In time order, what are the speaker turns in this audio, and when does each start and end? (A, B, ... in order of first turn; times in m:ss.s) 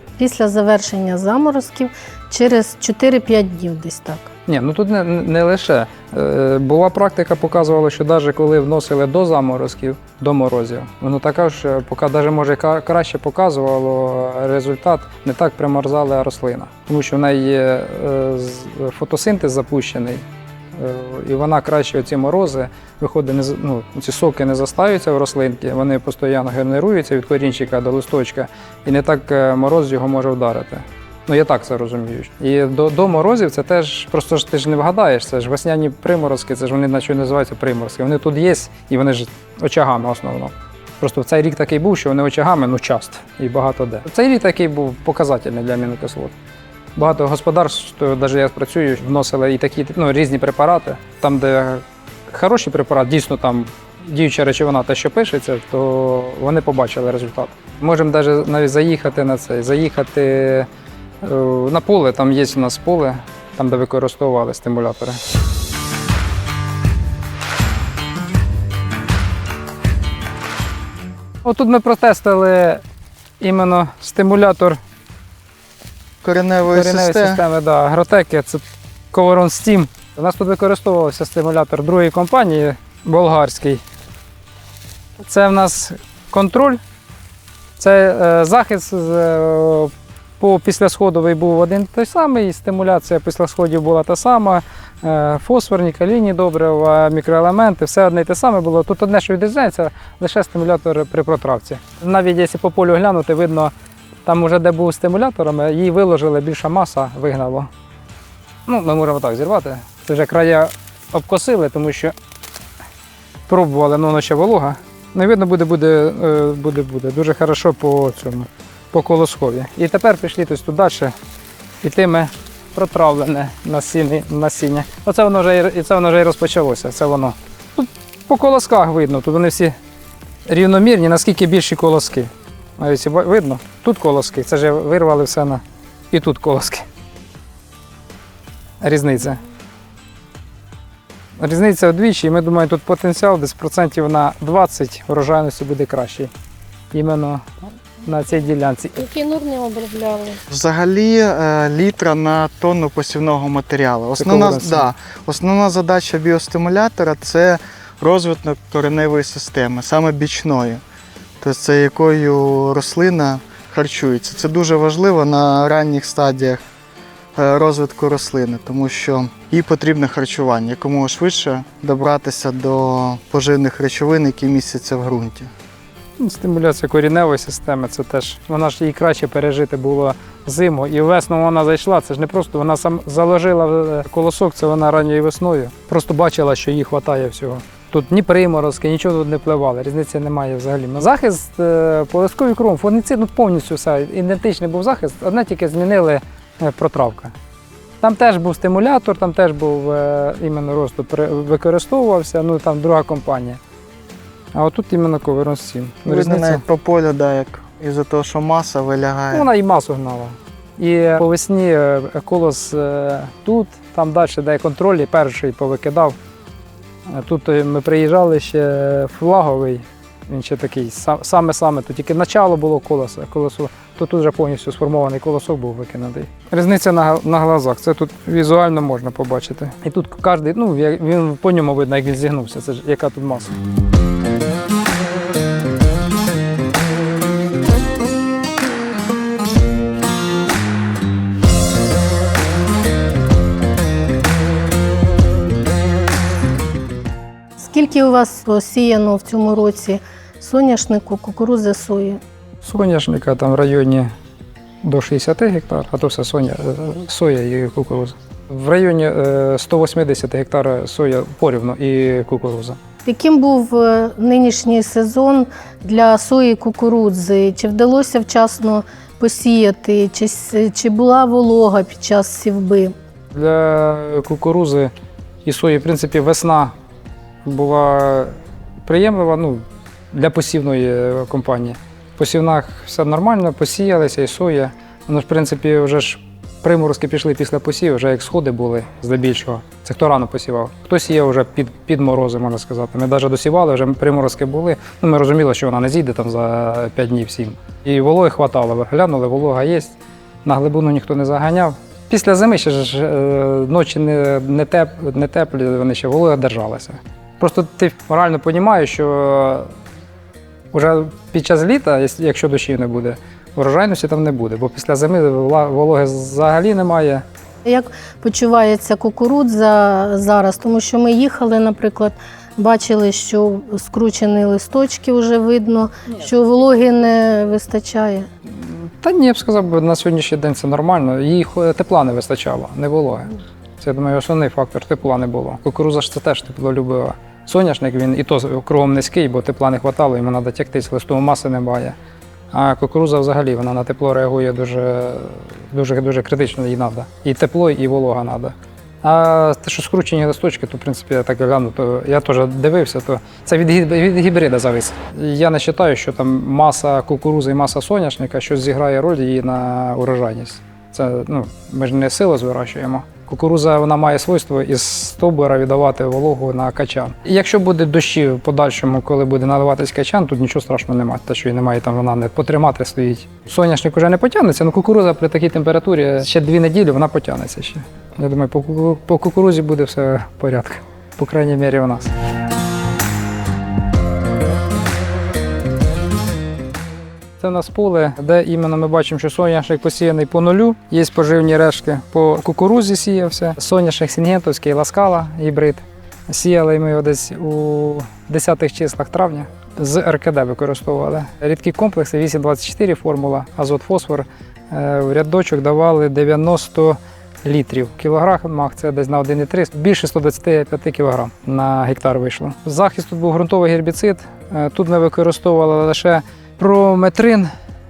0:00.2-0:04.3 A
0:04.5-0:46.3 B
0:47.0-1:00.7 B
1:01.2-1:05.2 B
1:11.4-1:12.8 B
1:13.4-1:14.8 B
1:16.2-1:17.4 C
1:16.7-1:23.8 B
1:25.2-1:26.8 B
1:27.8-1:43.7 B
1:44.2-1:47.7 B
1:48.7-1:52.2 B
1:53.5-2:01.1 B
2:01.8-2:09.8 B
2:10.5-2:16.9 B
2:18.8-2:19.4 B
2:21.4-2:26.3 B
2:26.9-2:29.0 B
2:29.0-2:30.4 A
2:30.5-2:40.8 C
2:34.2-2:34.9 B
2:41.4-2:46.6 C
2:47.4-2:55.5 C
2:56.2-3:17.3 B
3:18.0-3:23.6 B
3:24.5-3:26.6 B
3:26.1-3:29.5 C
3:29.3-3:36.2 B
3:37.1-3:53.6 B
4:07.6-4:12.2 A
4:12.6-4:14.1 B
4:14.8-4:22.8 B
4:23.0-4:32.9 A
4:33.3-4:34.9 B
4:35.4-4:36.7 B
4:37.4-5:09.7 B
5:10.7-5:17.2 B
5:17.6-5:28.3 A
5:28.5-5:42.0 B
5:42.5-6:22.1 B
6:27.4-6:57.5 B